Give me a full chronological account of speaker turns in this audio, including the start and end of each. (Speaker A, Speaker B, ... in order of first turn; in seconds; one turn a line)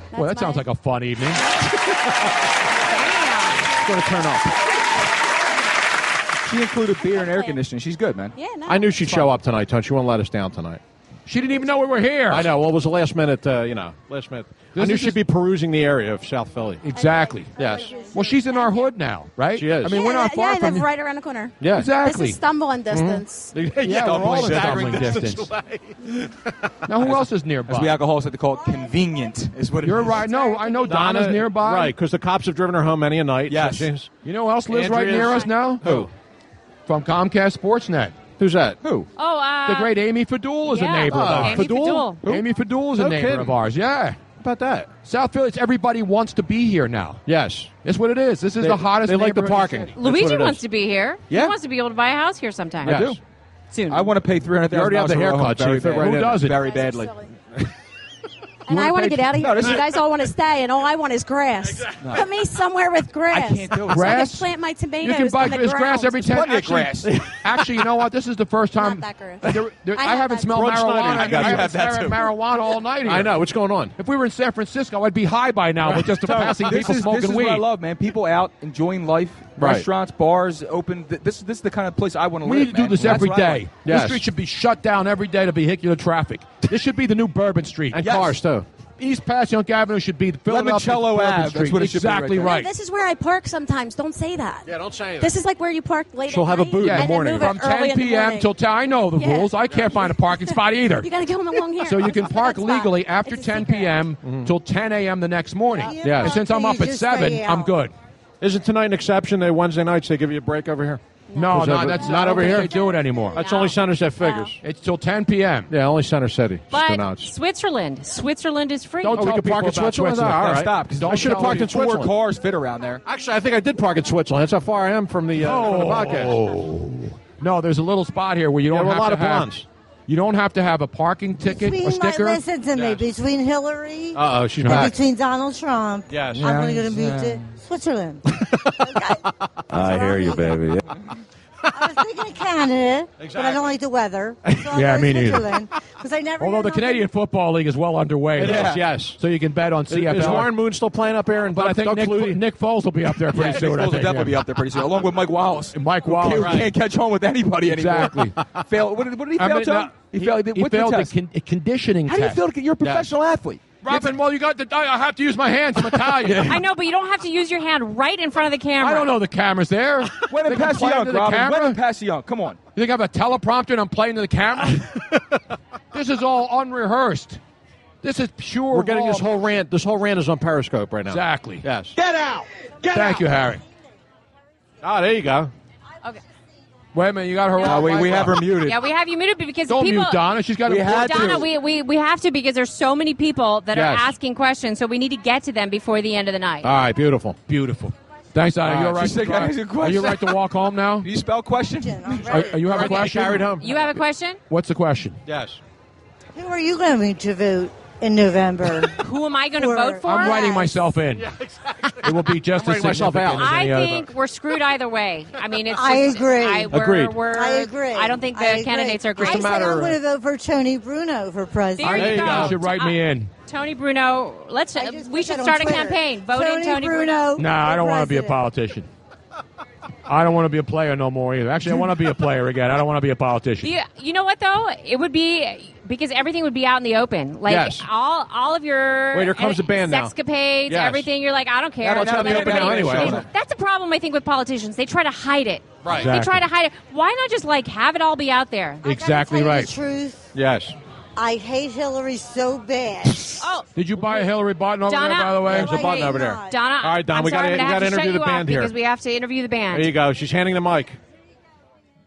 Speaker A: 0.1-0.7
Speaker B: 0.1-1.4
Speaker C: 3.0-3.5
Speaker A: 3.2-3.5
Speaker D: 3.8-4.5
Speaker E: 6.5-8.3
Speaker A: 7.0-7.6
Speaker A: 8.4-9.3
Speaker D: 8.7-10.8
Speaker B: 11.3-12.5
Speaker D: 12.3-16.9
Speaker B: 14.8-15.2
Speaker B: 16.8-17.6
Speaker A: 16.9-18.9
Speaker D: 17.6-17.9
Speaker B: 18.1-20.9
Speaker D: 19.6-20.0
Speaker A: 19.9-23.6
Speaker D: 21.6-21.9
Speaker B: 21.7-22.4
Speaker D: 22.9-26.8
Speaker B: 23.8-25.5
Speaker E: 23.8-25.2
Speaker B: 26.9-28.0
Speaker E: 27.7-30.2
Speaker B: 29.8-31.9
Speaker A: 30.2-31.1
Speaker D: 30.9-34.1
Speaker E: 33.5-33.9
Speaker B: 34.2-36.1
Speaker D: 34.7-36.1
Speaker E: 35.8-36.1
Speaker B: 36.9-38.1
Speaker D: 38.4-38.8
Speaker E: 38.8-39.1
Speaker C: 39.2-40.0
Speaker B: 39.7-44.2
Speaker C: 40.7-42.2
Speaker D: 41.1-42.4
Speaker D: 42.9-43.6
Speaker D: 44.4-44.9
Speaker B: 45.0-47.2
Speaker D: 47.2-47.7
Speaker B: 47.8-49.9
Speaker D: 48.6-50.6
Speaker C: 50.0-53.0
Speaker D: 52.8-53.2
Speaker E: 52.8-53.2
Speaker C: 53.7-54.1
Speaker E: 53.9-57.1
Speaker D: 54.7-56.5
Speaker B: 56.0-56.6
Speaker A: 56.6-57.3
Speaker A: 58.7-66.3
Speaker B: 58.7-59.7
Speaker E: 59.4-59.9
Speaker E: 62.0-62.3
Speaker E: 63.3-64.2
Speaker B: 63.9-73.4
Speaker E: 66.2-67.1
Speaker D: 67.0-67.7
Speaker A: 68.8-70.7
Speaker D: 70.4-71.8
Speaker E: 71.1-72.2
Speaker D: 73.0-74.0
Speaker B: 74.0-77.7
Speaker E: 75.9-83.7
Speaker D: 79.6-79.9
Speaker B: 82.4-88.1
Speaker D: 83.8-84.2
Speaker D: 87.9-88.7
Speaker E: 88.0-88.3
Speaker B: 89.0-92.7
Speaker E: 90.5-92.6
Speaker A: 92.4-98.5
Speaker D: 94.7-95.3
Speaker D: 96.3-97.6
Speaker B: 96.8-101.1
Speaker A: 99.1-104.1
Speaker B: 101.8-107.9
Speaker D: 104.2-104.5
Speaker A: 105.7-106.2
Speaker F: 105.9-107.7
Speaker D: 106.0-106.4
Speaker D: 108.4-112.8
Speaker A: 111.3-114.5
Speaker B: 111.4-113.4
Speaker D: 113.3-114.6
Speaker C: 113.4-113.7
Speaker B: 114.6-115.7
Speaker D: 115.7-117.3
Speaker C: 116.7-119.3
Speaker B: 119.0-121.8
Speaker D: 119.1-122.2
Speaker E: 120.4-123.0
Speaker D: 123.0-126.4
Speaker B: 125.4-129.5
Speaker D: 128.7-129.7
Speaker B: 130.1-132.4
Speaker F: 131.4-140.7
Speaker D: 132.8-133.1
Speaker D: 134.1-135.0
Speaker B: 134.6-134.9
Speaker D: 136.1-136.6
Speaker E: 136.4-137.5
Speaker D: 138.3-139.1
Speaker D: 139.7-140.7
Speaker F: 141.7-147.1
Speaker D: 143.2-143.7
Speaker B: 144.7-145.5
Speaker B: 146.4-150.6
Speaker D: 148.4-149.2
Speaker E: 148.4-148.8
Speaker D: 149.9-152.4
Speaker B: 151.5-154.4
Speaker E: 153.3-161.1
Speaker B: 155.7-156.7
Speaker D: 156.3-156.7
Speaker B: 157.7-158.4
Speaker B: 159.4-162.4
Speaker E: 162.1-164.1
Speaker D: 162.8-163.1
Speaker B: 163.8-166.6
Speaker E: 166.2-166.6
Speaker C: 166.4-169.1
Speaker B: 168.8-171.8
Speaker E: 170.2-172.6
Speaker B: 172.8-175.0
Speaker B: 175.9-177.4
Speaker B: 178.0-179.3
Speaker D: 178.7-182.0
Speaker B: 181.1-181.7
Speaker E: 182.0-182.4
Speaker D: 182.8-183.2
Speaker B: 182.9-183.6
Speaker D: 184.8-185.5
Speaker B: 186.9-188.5
Speaker E: 187.6-188.8
Speaker C: 188.6-190.2
Speaker B: 189.7-191.5
Speaker E: 190.7-191.5
Speaker C: 190.8-196.7
Speaker D: 193.7-194.1
Speaker D: 196.6-197.4
Speaker B: 197.5-201.1
Speaker D: 198.6-199.2
Speaker E: 198.9-200.4
Speaker E: 201.0-202.2
Speaker F: 201.8-202.8
Speaker B: 202.3-203.5
Speaker D: 202.5-203.7
Speaker C: 202.8-204.4
Speaker B: 204.5-205.2
Speaker D: 205.2-205.6
Speaker F: 206.3-210.7
Speaker C: 209.0-210.7
Speaker B: 210.1-211.3
Speaker D: 211.2-213.5
Speaker B: 212.0-214.1
Speaker C: 213.3-219.8
Speaker F: 215.7-222.2
Speaker D: 216.7-217.2
Speaker D: 219.2-220.0
Speaker C: 221.8-227.2
Speaker B: 221.8-223.3
Speaker D: 221.9-222.6
Speaker F: 224.8-228.4
Speaker B: 227.4-228.9
Speaker B: 230.1-233.7
Speaker C: 233.6-249.2
Speaker D: 237.5-237.9
Speaker D: 239.1-240.1
Speaker D: 240.7-241.1
Speaker E: 241.8-243.3
Speaker D: 241.8-243.2
Speaker D: 245.8-246.1
Speaker B: 245.9-246.4
Speaker B: 248.8-249.7
Speaker F: 249.1-250.3
Speaker D: 250.3-250.8
Speaker F: 251.2-253.4
Speaker C: 253.4-253.7
Speaker B: 253.8-255.7
Speaker C: 254.9-259.9
Speaker D: 255.5-258.7
Speaker F: 255.5-256.6
Speaker D: 259.7-261.0